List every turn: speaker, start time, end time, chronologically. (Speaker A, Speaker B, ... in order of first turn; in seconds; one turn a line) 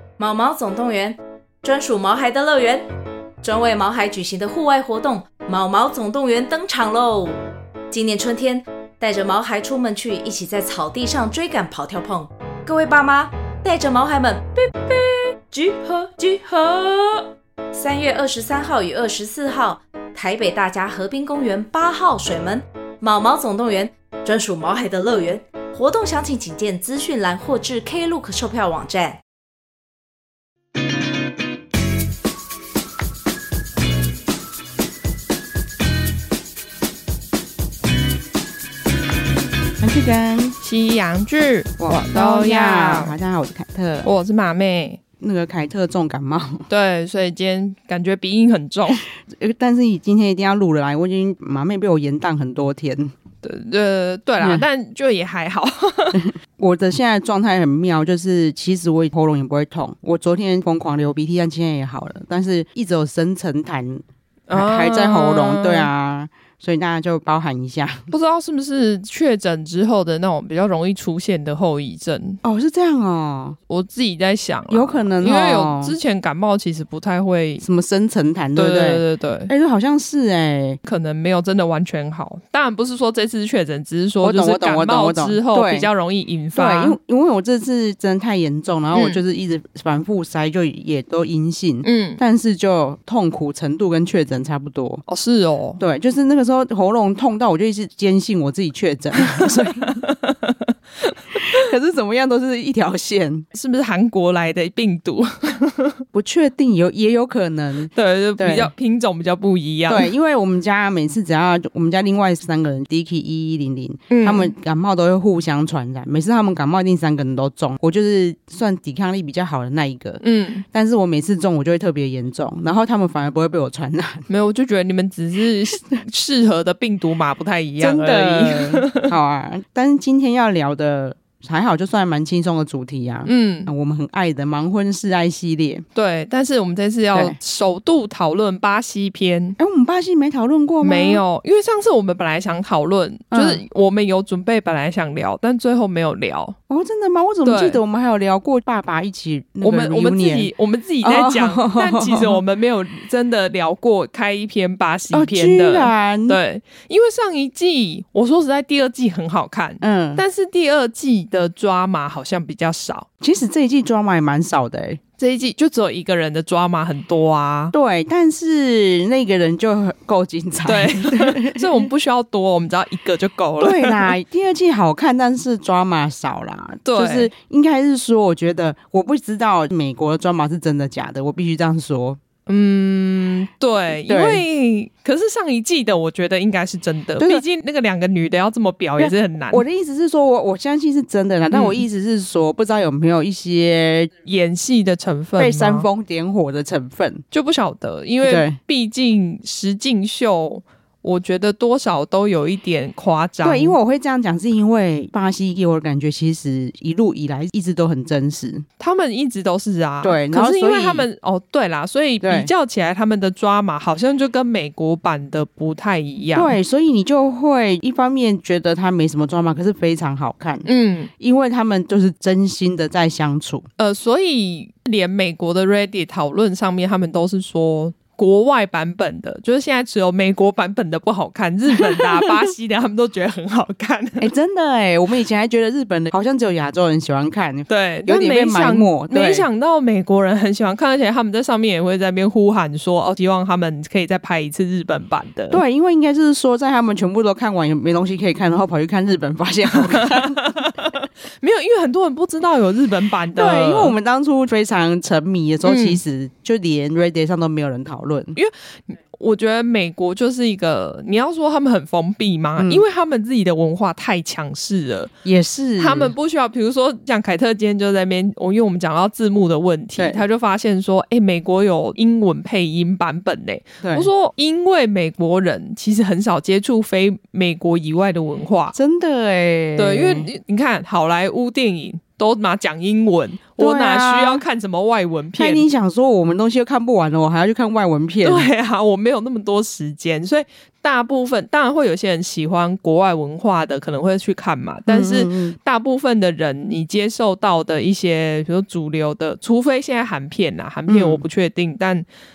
Speaker A: 0.2-2.9
Speaker A: 3.4-7.4
Speaker A: 7.9-29.2
Speaker B: 39.8-40.6
Speaker C: 40.6-43.1
Speaker B: 41.8-44.1
Speaker C: 44.0-45.0
Speaker B: 45.2-46.7
Speaker C: 46.7-49.0
Speaker B: 49.2-53.1
Speaker C: 53.4-56.3
Speaker B: 56.2-68.1
Speaker C: 64.5-65.9
Speaker C: 68.1-72.4
Speaker B: 72.4-73.6
Speaker C: 73.7-77.6
Speaker B: 74.7-75.9
Speaker B: 77.6-80.8
Speaker C: 78.5-79.5
Speaker C: 80.8-87.0
Speaker B: 84.2-85.9
Speaker B: 86.5-95.0
Speaker C: 88.9-89.2
Speaker C: 91.8-92.2
Speaker C: 95.1-95.8
Speaker B: 95.8-100.0
Speaker C: 99.2-100.6
Speaker B: 101.5-103.5
Speaker C: 103.5-106.0
Speaker B: 106.1-108.7
Speaker C: 107.9-110.1
Speaker B: 109.9-120.2
Speaker C: 114.1-114.5
Speaker C: 120.2-120.6
Speaker B: 120.7-124.2
Speaker C: 124.3-129.1
Speaker B: 127.8-135.8
Speaker C: 133.2-133.7
Speaker C: 135.9-139.6
Speaker B: 139.6-141.2
Speaker C: 140.8-146.6
Speaker B: 143.3-143.6
Speaker B: 146.7-150.5
Speaker C: 147.4-147.8
Speaker C: 149.6-163.1
Speaker B: 151.0-152.4
Speaker B: 155.1-156.4
Speaker B: 159.8-160.2
Speaker B: 163.2-165.0
Speaker C: 165.2-167.7
Speaker B: 167.7-171.8
Speaker C: 170.6-174.1
Speaker B: 173.6-182.2
Speaker C: 176.8-177.3
Speaker C: 182.5-189.6
Speaker B: 184.1-184.4
Speaker B: 189.0-194.1
Speaker C: 191.5-191.8
Speaker C: 194.2-195.9
Speaker B: 195.4-197.2
Speaker C: 197.3-203.8
Speaker B: 198.2-198.6
Speaker B: 203.4-208.6
Speaker C: 208.8-216.6
Speaker B: 210.0-211.0
Speaker B: 212.2-212.5
Speaker B: 216.3-220.7
Speaker C: 220.6-221.1
Speaker B: 221.2-223.7
Speaker C: 223.8-234.3
Speaker B: 231.9-232.3
Speaker B: 234.2-239.4
Speaker C: 237.7-245.6
Speaker B: 245.5-250.6
Speaker C: 249.9-253.9
Speaker B: 253.3-258.4
Speaker C: 255.6-256.0
Speaker C: 258.3-265.1
Speaker B: 262.6-262.8
Speaker B: 265.2-266.1
Speaker C: 265.8-278.7
Speaker B: 270.0-270.2
Speaker B: 273.8-274.1
Speaker B: 278.7-280.3
Speaker C: 279.8-285.6
Speaker B: 283.6-284.4
Speaker B: 285.4-288.5
Speaker C: 288.2-302.0
Speaker B: 294.9-295.6
Speaker B: 300.9-301.2